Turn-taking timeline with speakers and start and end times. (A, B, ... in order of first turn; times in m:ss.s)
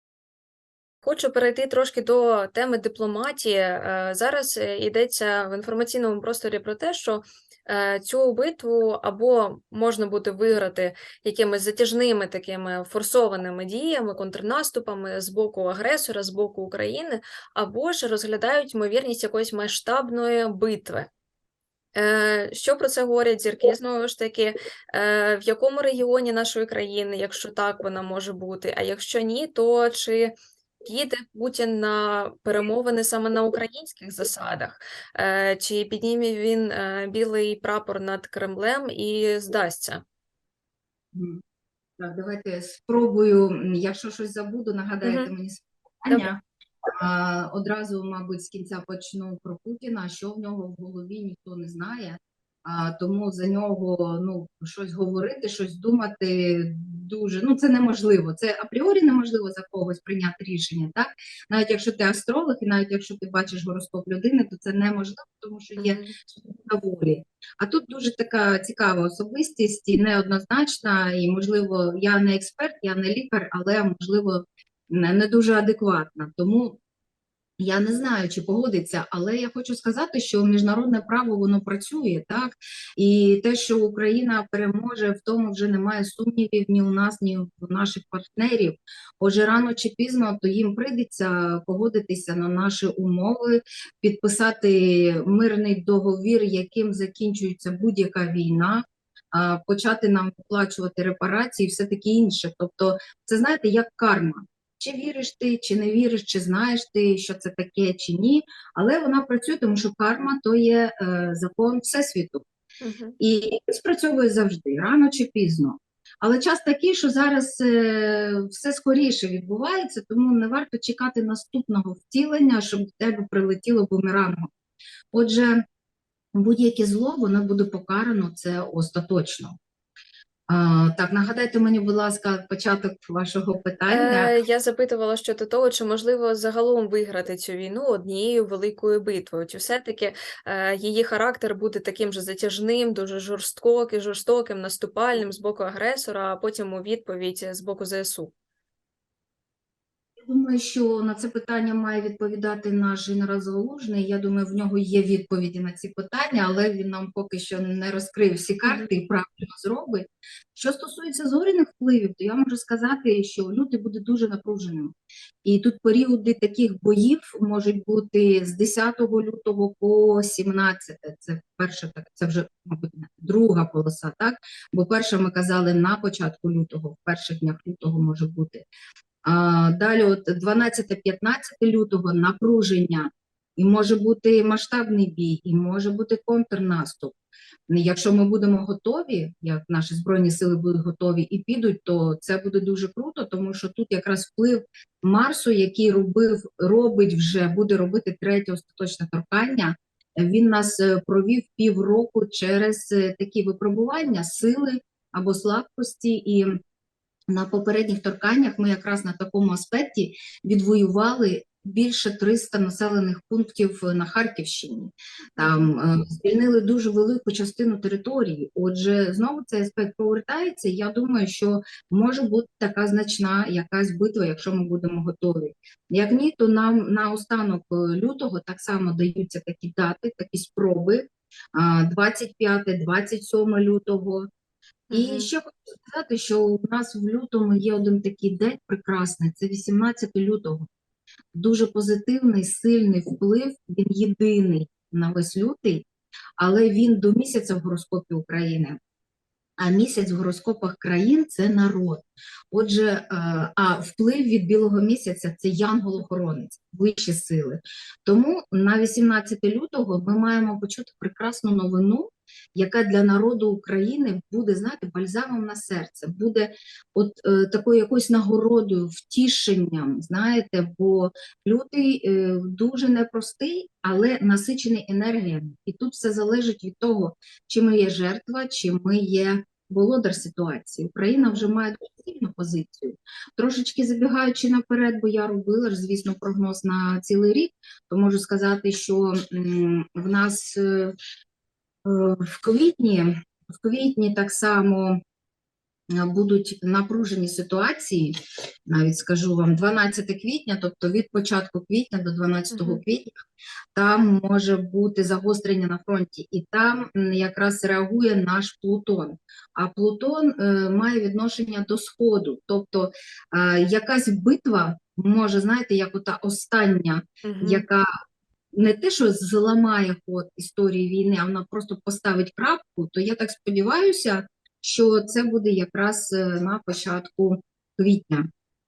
0:01.0-0:21.1 A
0:22.0-0:30.3 A
0:30.8-0:40.0 A
0:41.1-0:41.4 B
0:42.0-0:46.4 B
0:45.0-0:45.3 A
0:47.0-1:16.8 B
1:05.8-1:06.2 A
1:17.6-1:52.4 B
1:52.8-1:53.2 A
1:53.2-2:04.5 B
2:05.1-2:05.6 B
2:06.3-2:09.6 B
2:10.5-2:14.4 B
2:13.9-2:28.3 A
2:30.2-2:58.7 B
2:38.6-2:38.9 A
2:59.2-3:07.2 B
3:07.7-3:26.6 B
3:27.3-3:54.3 B
3:35.4-3:35.7 A
3:54.9-3:55.3 A
3:54.9-4:00.7 B
4:01.3-4:05.8 B
4:06.4-4:08.8 B
4:09.6-4:51.0 B
4:41.2-4:41.5 A
4:51.8-4:55.0 B
4:55.9-4:58.2 B
4:58.7-5:03.2 B
5:02.5-5:02.8 A
5:03.7-5:17.9 B
5:17.2-5:17.7 A
5:18.5-5:28.3 B